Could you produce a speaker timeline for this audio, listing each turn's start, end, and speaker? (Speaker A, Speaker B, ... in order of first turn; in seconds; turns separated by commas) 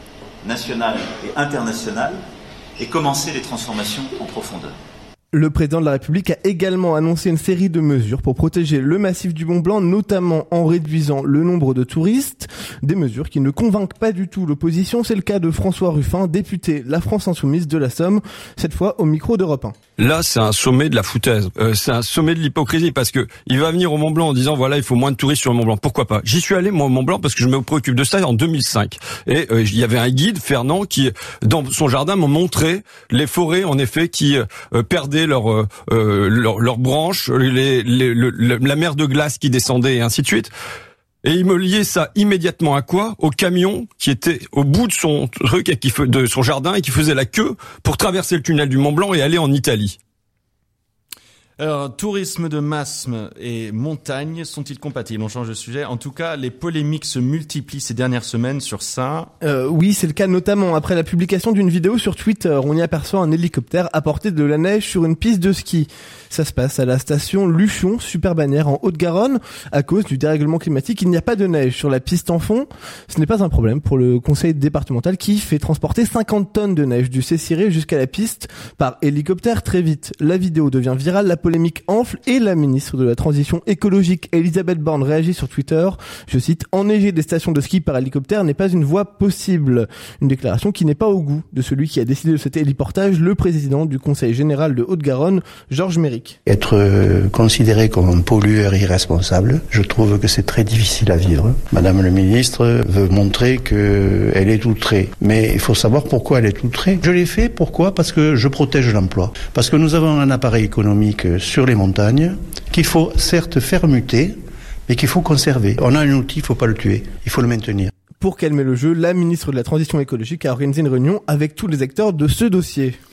Speaker A: 0.4-2.2, Speaker A: 2.8-4.7, Speaker B: 5.3-19.8, Speaker C: 20.0-40.5, Speaker C: 41.2-50.0, Speaker D: 51.6-59.3, Speaker B: 59.4-96.4, Speaker E: 96.5-117.9, Speaker B: 118.2-123.0